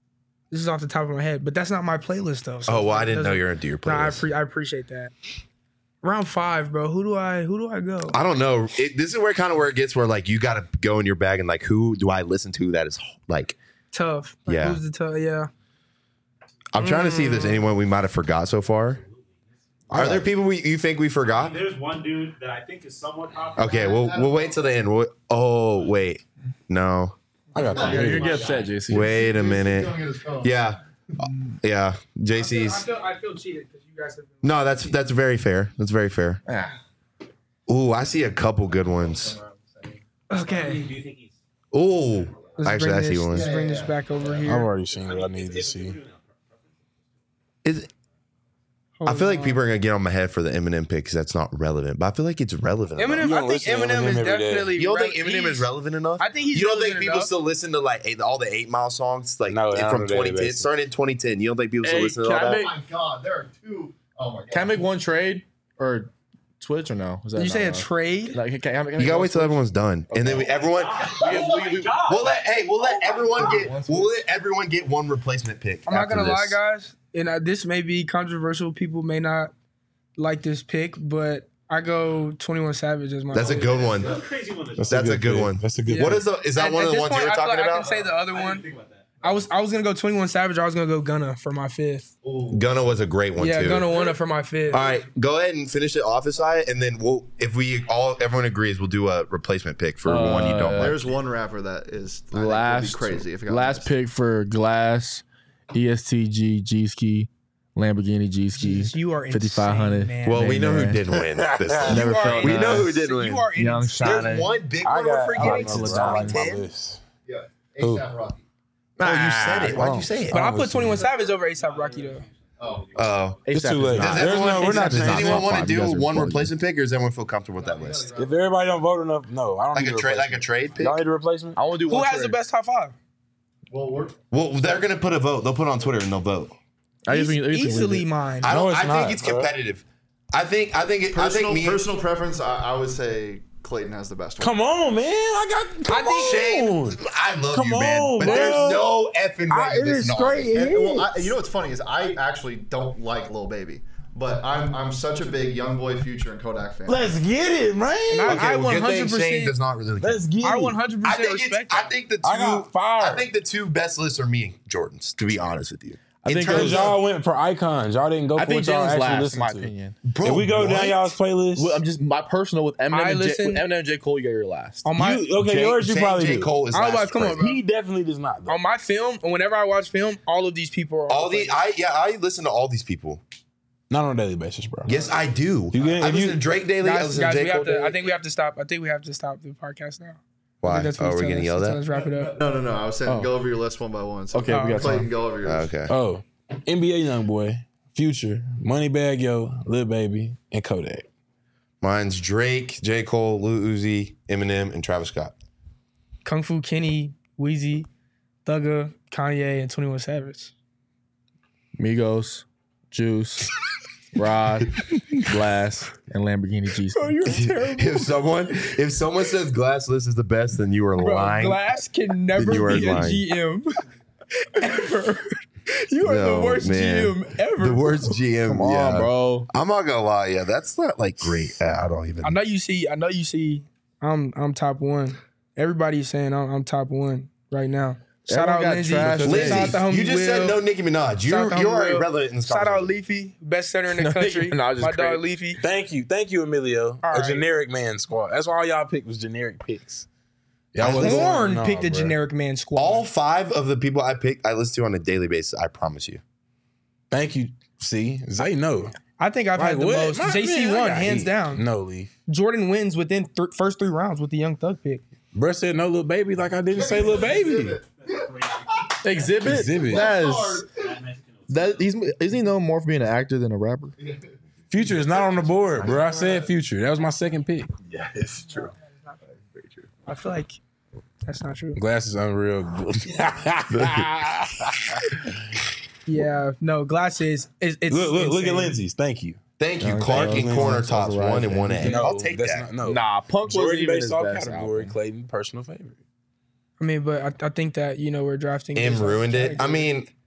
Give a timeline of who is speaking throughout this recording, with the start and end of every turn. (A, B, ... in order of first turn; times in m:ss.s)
0:00.5-0:05.1 A
0:02.7-0:04.3 B
0:06.0-0:08.2 A
0:08.1-0:13.6 B
0:13.9-0:15.5 A
0:14.5-0:14.8 B
0:16.7-0:19.0 B
0:16.8-0:17.7 A
0:19.0-0:19.4 C
0:19.9-0:20.3 D
0:19.9-0:21.7 B
0:21.2-0:24.2 C
0:23.6-0:27.2 B
0:23.6-0:24.7 E
0:27.5-0:28.4 D
0:27.7-0:30.6 E
0:27.7-0:29.4 F
0:27.8-0:28.8 C
0:28.9-0:32.8 B
0:32.3-0:34.9 A
0:34.4-0:36.4 B
0:36.5-0:36.8 F
0:37.7-0:39.4 B
0:39.2-0:39.9 E
0:40.3-0:41.0 A
0:40.3-0:41.4 C
0:41.7-0:43.5 B
0:42.1-0:42.6 C
0:42.6-0:44.7 A
0:43.3-0:43.9 E
0:44.3-0:46.8 C
0:44.4-0:46.0 D
0:47.6-0:47.9 B
0:49.0-0:49.6 A
0:49.1-0:53.3 B
0:53.0-0:57.3 A
0:53.2-0:54.8 D
0:54.8-1:02.7 B
0:59.5-1:00.7 D
1:01.8-1:02.7 F
1:02.4-1:04.8 E
1:04.5-1:12.0 F
1:07.4-1:08.4 A
1:09.0-1:11.2 B
1:10.4-1:12.6 C
1:11.3-1:11.7 E
1:12.1-1:16.6 B
1:13.1-1:13.7 E
1:13.3-1:14.1 F
1:15.9-1:19.5 A
1:20.2-1:23.8 A
1:23.3-1:24.2 B
1:23.4-1:24.2 E
1:23.4-1:25.0 C
1:24.8-1:26.2 D
1:24.9-1:27.9 B
1:25.9-1:28.7 A
1:27.8-1:29.5 C
1:29.2-1:32.1 A
1:32.2-1:32.7 E
1:32.5-1:33.9 B
1:33.4-1:34.9 A
1:34.7-1:41.0 B
1:40.0-1:41.0 F
1:40.8-1:43.9 E
1:42.3-1:51.0 F
1:48.6-1:50.6 A
1:50.2-1:53.5 B
1:51.1-1:52.1 D
1:51.8-1:52.9 F
1:51.8-1:54.3 A
1:53.6-1:54.5 F
1:54.0-1:56.6 B
1:54.8-1:57.0 D
1:55.4-1:56.4 F
1:57.3-1:58.4 E
1:57.8-1:58.1 D
1:59.0-2:00.2 F
1:59.0-2:00.4 B
2:00.3-2:01.0 D
2:00.3-2:02.3 A
2:00.9-2:03.5 C
2:02.6-2:02.9 E
2:03.0-2:03.4 B
2:03.5-2:06.5 F
2:03.5-2:05.7 D
2:03.9-2:08.1 B
2:07.6-2:08.7 E
2:08.2-2:11.6 D
2:09.7-2:11.0 B
2:11.6-2:12.4 F
2:11.9-2:13.0 A
2:13.7-2:14.2 E
2:14.3-2:16.6 B
2:17.0-2:18.1 F
2:17.1-2:18.5 A
2:18.4-2:19.5 D
2:18.4-2:21.8 B
2:21.1-2:24.9 E
2:24.4-2:27.0 D
2:25.9-2:26.4 A
2:26.2-2:30.6 B
2:27.5-2:28.9 D
2:29.5-2:31.3 D
2:30.5-2:37.2 E
2:36.9-2:38.4 D
2:38.1-2:39.5 A
2:38.3-2:40.3 B
2:40.0-2:40.8 D
2:40.4-2:41.9 A
2:41.0-2:47.0 B
2:42.2-2:43.3 D
2:46.2-2:47.0 F
2:46.4-2:49.7 D
2:48.4-2:50.0 F
2:50.0-2:51.2 B
2:50.2-2:51.8 D
2:51.6-2:54.9 F
2:52.9-2:53.6 A
2:54.8-2:55.3 A
2:54.9-2:56.5 D
2:55.4-2:57.5 B
2:56.7-2:57.6 A
2:57.3-2:58.6 D
2:58.5-3:01.6 A
3:01.1-3:03.2 B
3:03.9-3:05.0 D
3:04.9-3:08.0 B
3:05.7-3:06.4 D
3:06.8-3:12.4 A
3:10.6-3:11.8 B
3:12.3-3:15.7 E
3:13.0-3:13.3 F
3:14.3-3:15.1 F
3:14.5-3:15.0 A
3:15.4-3:15.9 B
3:15.9-3:21.1 D
3:21.8-3:25.4 B
3:26.2-3:27.9 A
3:28.4-3:30.5 A
3:31.8-3:33.5 F
3:34.2-3:37.3 F
3:36.9-3:38.1 A
3:37.3-3:41.6 B
3:41.0-3:43.8 A
3:42.4-3:43.2 B
3:44.4-3:48.0 A
3:46.0-3:52.4 B
3:48.5-3:49.5 F
3:52.2-4:00.6 A
3:58.3-3:59.8 F
3:59.2-4:02.9 B
4:01.3-4:05.6 A
4:03.9-4:05.2 F
4:05.6-4:10.1 D
4:07.0-4:07.4 A
4:10.7-4:12.2 D
4:10.8-4:11.4 B
4:10.9-4:13.1 A
4:12.8-4:16.2 B
4:17.1-4:18.9 D
4:19.2-4:21.6 A
4:19.6-4:22.1 D
4:22.3-4:25.0 A
4:25.3-4:27.8 D
4:26.7-4:31.0 E
4:28.1-4:28.7 C
4:29.0-4:30.7 F
4:29.4-4:30.2 D
4:30.8-4:31.8 C
4:31.5-4:33.9 F
4:34.0-4:34.3 E
4:34.7-4:37.7 D
4:35.1-4:36.4 E
4:37.9-4:38.7 B
4:40.1-4:40.6 A
4:41.2-4:41.8 A
4:41.8-4:45.4 D
4:46.1-4:48.8 A
4:47.9-4:49.4 D
4:49.6-4:52.7 B
4:49.8-4:52.1 F
4:50.1-4:50.8 D
4:51.8-4:56.0 D
4:52.8-4:55.0 F
4:56.8-4:59.9 A
4:58.8-5:00.1 B